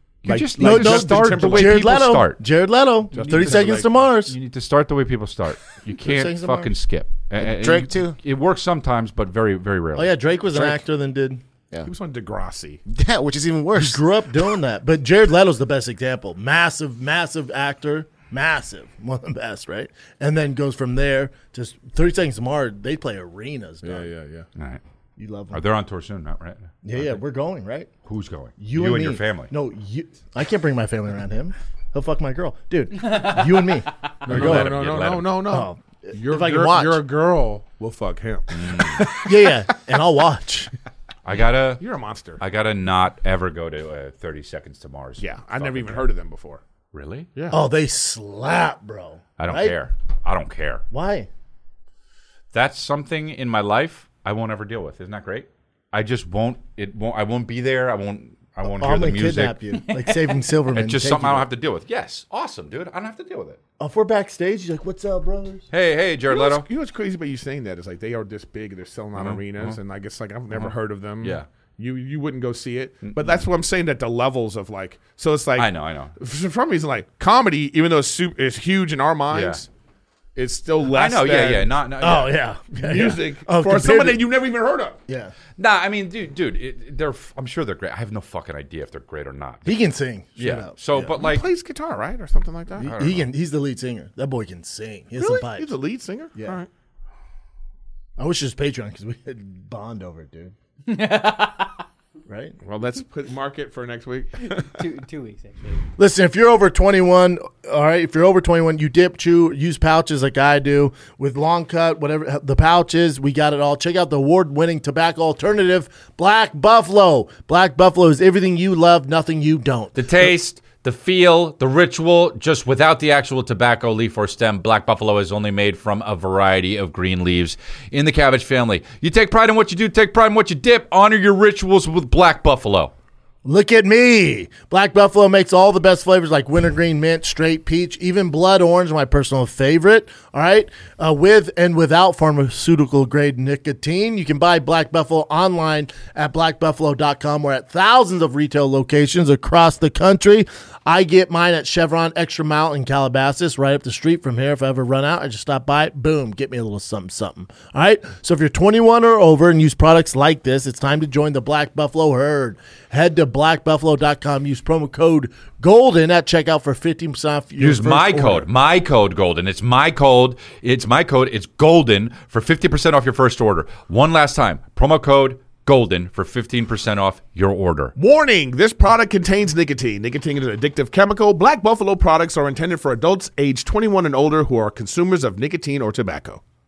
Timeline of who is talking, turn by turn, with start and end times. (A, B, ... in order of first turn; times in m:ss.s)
0:00.2-0:02.4 A
0:00.3-0:01.9 B
0:00.3-0:04.3 C
0:03.1-0:03.9 B
0:03.2-0:10.1 A
0:06.0-0:06.7 C
0:07.4-0:08.2 D
0:09.9-0:11.4 C
0:11.8-0:12.8 B
0:12.9-0:14.0 D
0:13.7-0:24.1 C
0:23.8-0:24.5 B
0:24.5-0:24.8 A
0:25.2-0:25.6 C
0:25.5-0:27.2 A
0:26.8-0:27.9 C
0:28.0-0:29.5 A
0:28.6-0:34.8 C
0:34.2-0:39.2 B
0:34.3-0:35.3 A
0:35.5-0:37.0 C
0:38.5-0:39.0 A
0:39.1-0:40.7 C
0:41.2-0:41.8 A
0:41.8-0:42.4 B
0:42.4-0:46.1 A
0:45.2-0:46.6 B
0:46.9-0:47.3 A
0:47.3-0:47.6 B
0:47.5-0:49.8 C
0:49.4-0:50.8 A
0:50.9-0:51.3 C
0:52.5-0:59.6 A
0:58.6-1:01.5 C
0:59.9-1:00.2 E
1:00.7-1:03.6 A
1:03.8-1:05.6 C
1:05.7-1:06.7 A
1:06.3-1:19.7 B
1:09.2-1:09.8 A
1:10.5-1:11.4 A
1:13.0-1:13.4 A
1:15.6-1:16.1 A
1:19.3-1:19.6 A
1:20.3-1:21.7 B
1:20.9-1:22.3 A
1:22.0-1:24.3 C
1:22.8-1:25.0 B
1:25.1-1:25.3 C
1:25.6-1:29.7 A
1:29.6-1:31.1 C
1:30.4-1:31.4 A
1:31.1-1:32.9 B
1:32.8-1:33.3 A
1:32.8-1:35.7 C
1:35.2-1:36.7 B
1:38.2-1:40.5 C
1:40.9-1:41.8 E
1:42.3-1:42.5 C
1:42.6-1:44.7 B
1:44.5-1:45.8 E
1:46.0-2:00.0 C
1:59.9-2:12.9 A
2:13.4-2:48.5 C
2:47.6-2:57.9 A
2:58.0-3:06.4 B